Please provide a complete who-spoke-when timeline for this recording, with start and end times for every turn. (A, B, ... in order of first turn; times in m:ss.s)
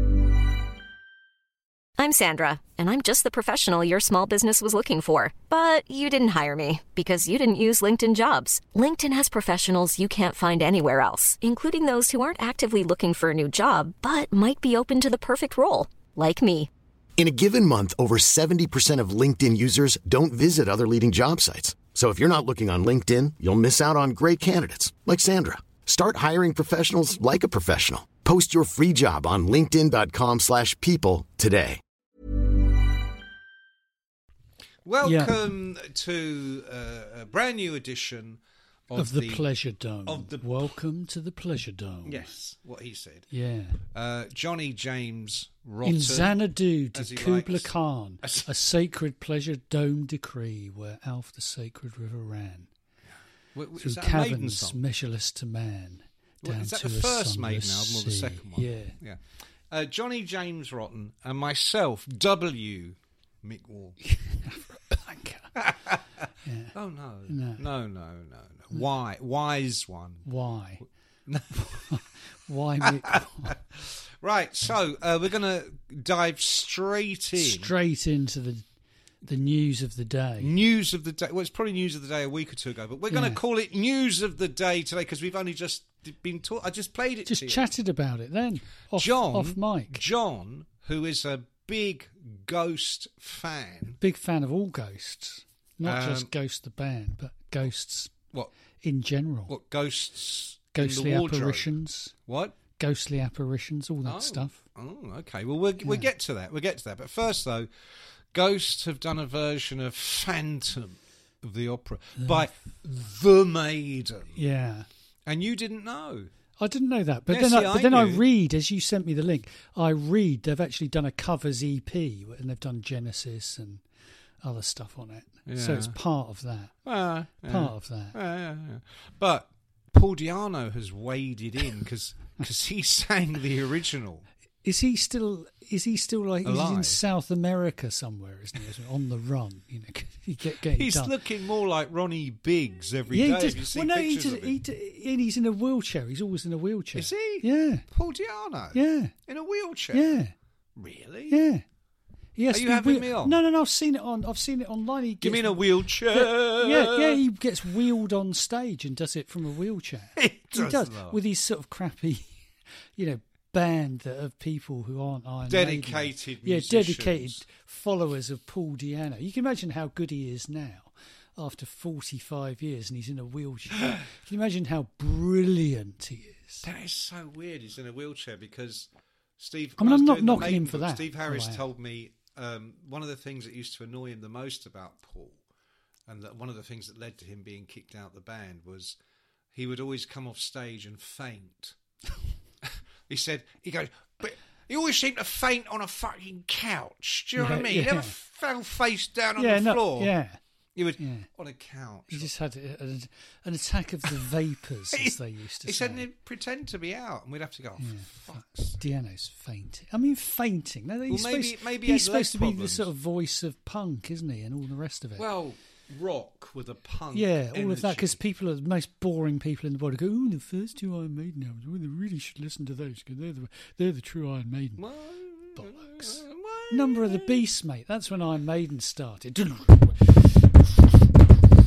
0:02.0-0:16.7 A
0:17.2-0:31.8 B
0:34.8-0:39.5 C
0:35.0-0:35.4 D
0:39.0-0:42.3 D
0:40.0-0:40.7 C
0:42.0-0:43.3 C
0:43.3-0:43.8 D
0:43.9-0:46.4 C
0:45.8-0:52.7 D
0:46.9-0:47.7 C
0:48.2-0:48.5 C
0:53.5-0:54.8 C
0:53.8-0:59.0 D
0:56.4-1:04.0 C
1:04.0-1:05.6 D
1:05.6-1:05.9 C
1:06.4-1:06.7 D
1:06.7-1:10.2 C
1:07.3-1:07.6 D
1:10.2-1:10.8 D
1:11.3-1:11.8 C
1:11.5-1:13.6 D
1:13.5-1:17.7 C
1:17.4-1:18.6 D
1:19.2-1:20.5 D
1:20.4-1:27.7 C
1:23.1-1:23.4 D
1:27.3-1:30.0 D
1:29.0-1:34.0 C
1:34.0-1:38.1 D
1:35.8-1:36.3 C
1:38.8-1:39.5 D
1:39.5-1:41.7 C
1:40.7-1:42.2 D
1:42.3-1:42.6 C
1:42.8-1:44.6 D
1:44.0-1:47.7 C
1:45.8-1:46.1 D
1:48.3-1:54.4 C
1:52.2-1:52.4 D
1:54.3-1:54.9 D
1:55.2-1:56.3 C
1:56.6-2:03.8 D
1:57.3-1:58.2 C
2:04.4-2:06.8 D
2:05.5-2:05.9 C
2:06.8-2:14.2 C
2:07.4-2:08.2 D
2:14.6-2:21.1 D
2:16.4-2:17.0 C
2:20.7-2:24.6 C
2:23.1-2:27.8 D
2:26.9-2:30.1 C
2:28.7-2:29.1 D
2:29.9-2:30.3 D
2:30.8-2:31.4 C
2:31.3-2:31.6 D
2:32.4-2:42.4 D
2:32.5-2:33.4 C
2:35.2-2:37.2 C
2:40.2-2:41.2 C
2:43.0-2:56.6 D
2:45.5-2:47.4 C
2:56.6-3:05.4 C
2:59.8-3:01.6 D
3:06.1-3:09.0 C
3:09.5-3:11.7 C
3:12.6-3:20.1 C
3:17.4-3:18.1 D
3:19.4-3:20.4 D
3:20.7-3:22.3 C
3:21.0-3:21.3 D
3:22.1-3:26.1 D
3:24.9-3:28.8 C
3:27.8-3:35.2 D
3:31.1-3:32.9 C
3:35.2-3:38.2 C
3:37.1-3:44.8 D
3:44.8-3:47.4 C
3:45.6-3:50.6 D